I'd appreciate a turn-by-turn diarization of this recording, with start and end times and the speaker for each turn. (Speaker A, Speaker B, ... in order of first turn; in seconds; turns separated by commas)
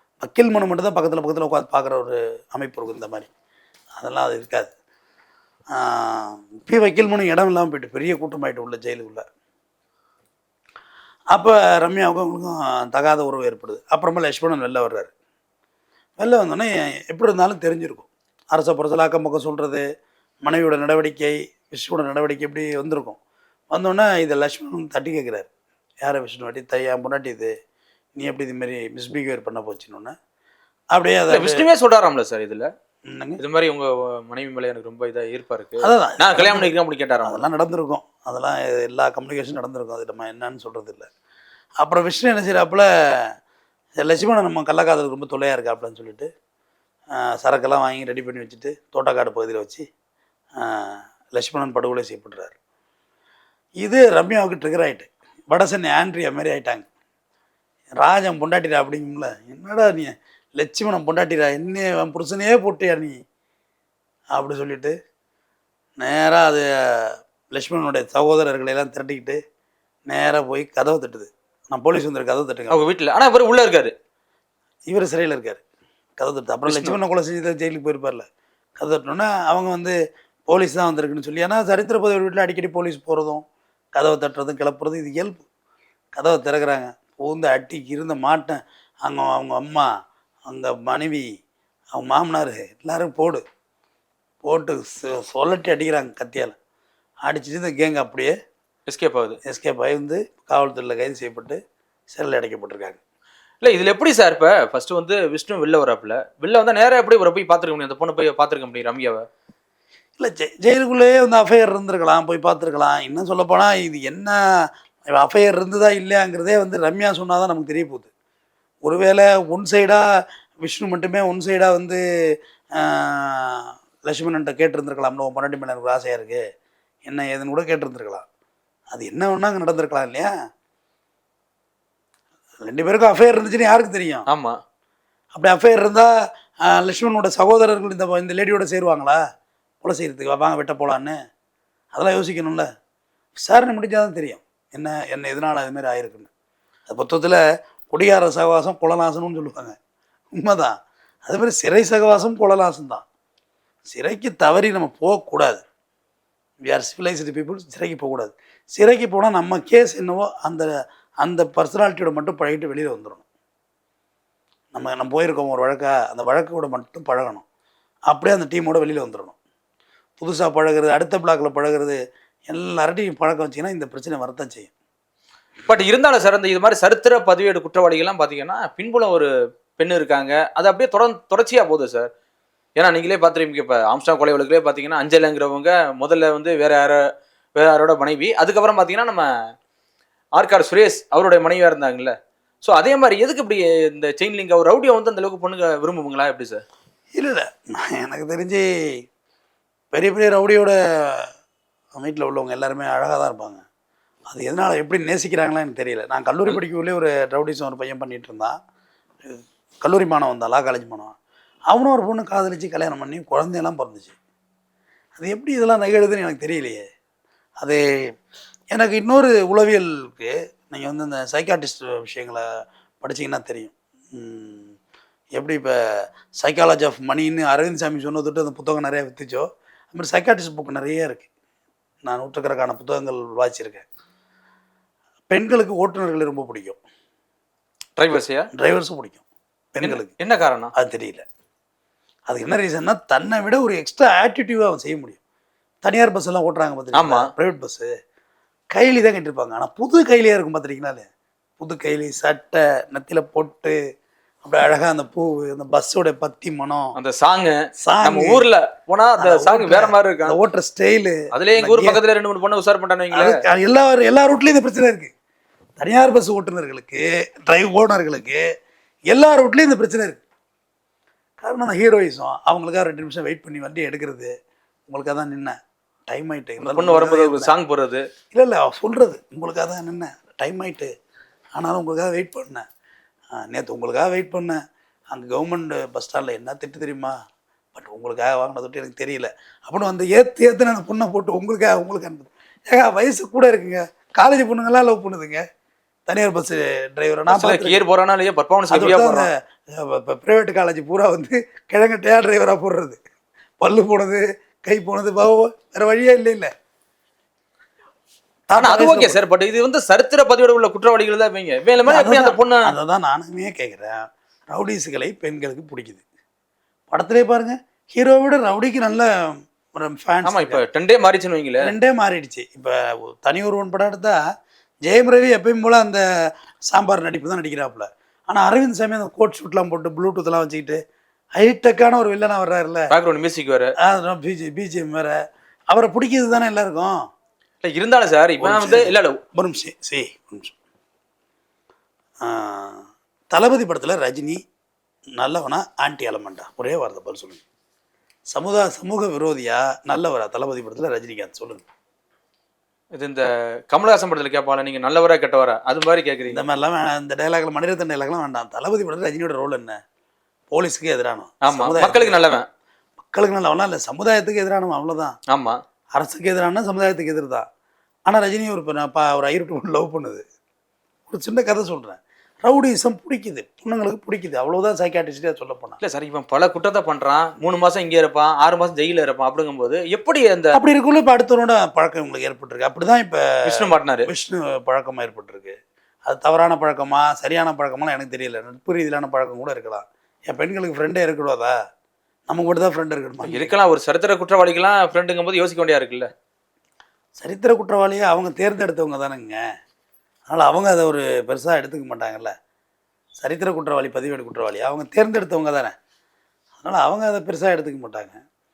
Speaker A: 0.2-3.3, Speaker A: 4.0-4.7, Speaker A: 5.7-9.2, Speaker A: 11.3-15.1, Speaker A: 16.2-19.8, Speaker A: 20.4-23.2, Speaker A: 23.7-25.5, Speaker A: 26.0-27.5, Speaker A: 28.2-30.1, Speaker A: 30.9-31.7, Speaker B: 31.3-32.7, Speaker A: 33.1-33.4, Speaker B: 33.4-37.5, Speaker A: 35.8-36.7, Speaker A: 37.2-41.1, Speaker A: 41.8-43.4, Speaker A: 44.0-46.3, Speaker A: 47.1-49.9, Speaker A: 50.6-52.5, Speaker A: 53.8-56.9, Speaker A: 58.0-63.1, Speaker A: 64.3-65.0, Speaker A: 66.0-69.4, Speaker A: 70.1-72.8, Speaker B: 72.7-73.9, Speaker A: 74.9-75.6, Speaker A: 76.2-78.3, Speaker B: 76.7-77.0, Speaker A: 78.8-80.0, Speaker A: 80.5-85.5, Speaker A: 86.1-89.9, Speaker A: 90.5-91.3, Speaker A: 91.9-93.4, Speaker A: 94.4-96.5, Speaker A: 97.3-98.4, Speaker B: 98.9-99.4, Speaker A: 99.5-101.6, Speaker A: 102.1-103.0, Speaker B: 103.6-109.2, Speaker A: 110.2-118.1, Speaker A: 118.8-126.4, Speaker A: 127.0-128.2, Speaker A: 128.9-130.3, Speaker A: 132.6-134.2, Speaker B: 134.3-134.6, Speaker A: 135.3-136.1, Speaker A: 136.6-139.2, Speaker A: 139.8-141.2, Speaker A: 141.9-142.7, Speaker A: 143.4-146.3, Speaker A: 146.9-149.8, Speaker A: 150.3-153.0, Speaker A: 153.9-155.6, Speaker A: 156.7-160.7, Speaker A: 161.2-163.2, Speaker A: 164.7-167.4, Speaker A: 168.1-169.3, Speaker A: 170.2-174.7, Speaker B: 175.7-182.1, Speaker B: 182.8-187.0, Speaker B: 187.6-189.3, Speaker B: 190.4-196.6, Speaker A: 197.2-199.1, Speaker A: 199.9-201.3, Speaker A: 201.9-203.6, Speaker A: 204.3-208.6, Speaker A: 209.2-211.2, Speaker A: 211.7-214.1, Speaker A: 215.2-216.8, Speaker A: 217.6-218.1, Speaker A: 218.7-224.7, Speaker A: 225.3-231.3, Speaker A: 232.0-233.8, Speaker A: 235.3-236.8, Speaker B: 238.0-238.5, Speaker A: 238.6-239.2, Speaker A: 239.7-240.1, Speaker B: 239.8-240.7, Speaker A: 240.8-241.2, Speaker A: 242.3-245.2, Speaker A: 245.8-247.9, Speaker B: 246.9-247.2, Speaker A: 248.7-251.1, Speaker A: 251.6-253.8, Speaker A: 254.4-256.9, Speaker B: 257.0-260.4, Speaker A: 257.8-258.5, Speaker A: 259.2-262.0, Speaker B: 261.3-263.3, Speaker A: 263.1-265.1, Speaker A: 265.8-268.4, Speaker A: 269.1-270.2, Speaker A: 271.4-274.3, Speaker A: 274.9-275.6, Speaker A: 276.1-277.5, Speaker B: 276.6-278.1, Speaker A: 278.3-280.9, Speaker A: 281.6-282.6, Speaker A: 283.3-287.1, Speaker A: 287.8-295.4, Speaker A: 296.1-297.8, Speaker B: 297.3-299.3, Speaker A: 298.7-303.0, Speaker A: 303.6-306.5, Speaker A: 308.5-309.2, Speaker B: 308.6-312.6, Speaker A: 311.9-316.0, Speaker A: 316.9-320.6, Speaker B: 320.2-321.6, Speaker A: 321.6-324.2, Speaker A: 324.8-330.8, Speaker A: 331.4-332.9, Speaker B: 332.9-333.7, Speaker A: 333.8-335.2, Speaker A: 335.7-337.1, Speaker B: 337.6-339.2, Speaker A: 338.4-340.5, Speaker A: 342.2-344.4, Speaker A: 345.2-347.4, Speaker A: 348.3-351.6, Speaker B: 352.9-356.4, Speaker A: 356.3-359.8, Speaker A: 360.5-362.2, Speaker B: 361.4-362.5, Speaker A: 363.0-365.2, Speaker B: 365.3-365.6, Speaker A: 365.9-367.5, Speaker A: 368.1-370.2, Speaker A: 371.1-375.8, Speaker B: 375.8-380.6, Speaker A: 380.6-383.2, Speaker B: 383.5-384.1, Speaker A: 384.1-391.5, Speaker A: 392.3-393.5, Speaker B: 393.2-396.1, Speaker A: 397.2-399.4, Speaker A: 400.3-402.3, Speaker A: 403.2-405.7, Speaker A: 406.6-408.2